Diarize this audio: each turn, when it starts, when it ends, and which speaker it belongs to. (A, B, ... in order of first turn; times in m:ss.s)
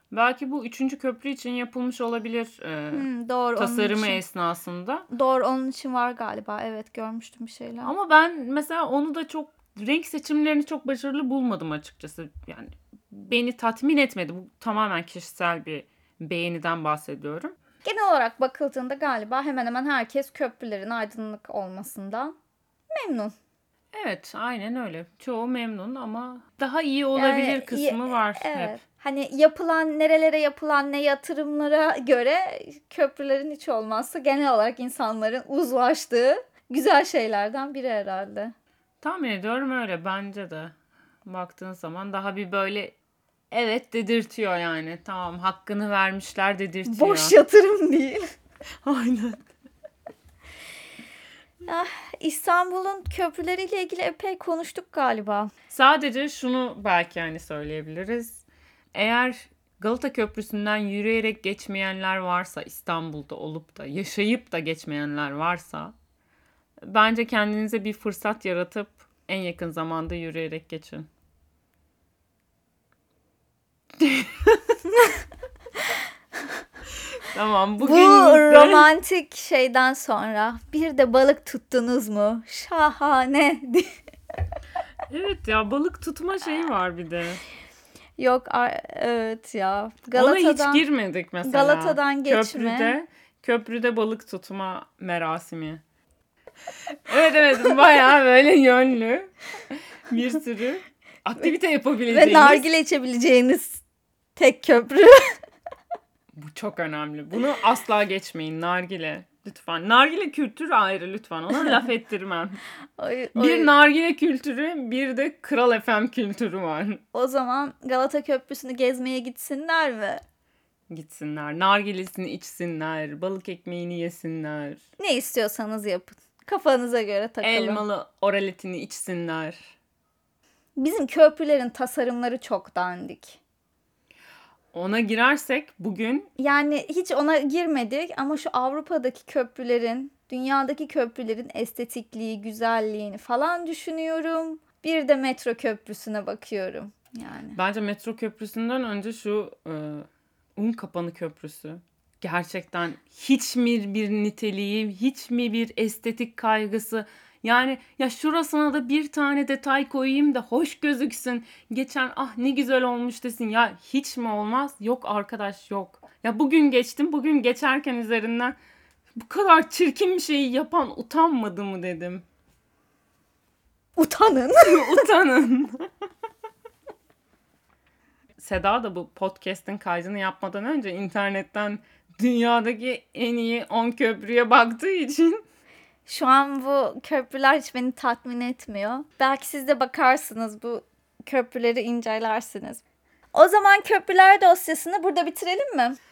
0:00.1-0:05.1 A
0:02.9-0:04.2 B
0:05.1-0:07.9 B
0:07.8-0:17.5 A
0:17.8-0:22.4 B
0:22.9-0:23.4 B
0:23.9-0:28.8 A
0:27.2-0:38.5 B
0:39.0-0:40.7 A
0:41.2-0:43.0 A
0:43.5-0:47.4 A
0:46.9-0:48.2 B
0:48.8-0:49.5 A
0:51.6-0:55.5 B
0:55.7-1:06.0 A
1:06.8-1:11.1 A
1:14.0-1:14.8 A
1:17.2-1:18.9 A
1:17.8-1:23.9 B
1:25.1-1:27.4 A
1:28.2-1:30.8 B
1:30.1-1:35.8 A
1:31.4-1:32.9 B
1:36.9-1:42.6 A
1:42.1-1:43.8 B
1:44.4-1:45.4 B
1:46.4-1:52.6 A
1:53.0-1:53.7 B
1:53.4-1:57.0 A
1:57.1-2:00.2 B
2:00.9-2:04.8 A
2:05.0-2:07.8 B
2:07.4-2:09.8 A
2:10.8-2:13.4 B
2:14.7-2:16.3 A
2:16.4-2:27.6 B
2:27.6-2:48.6 A
2:49.2-2:52.2 A
2:54.0-2:55.1 B
2:54.6-2:55.9 A
2:58.4-3:05.4 A
3:06.1-3:12.8 B
3:13.3-3:16.0 B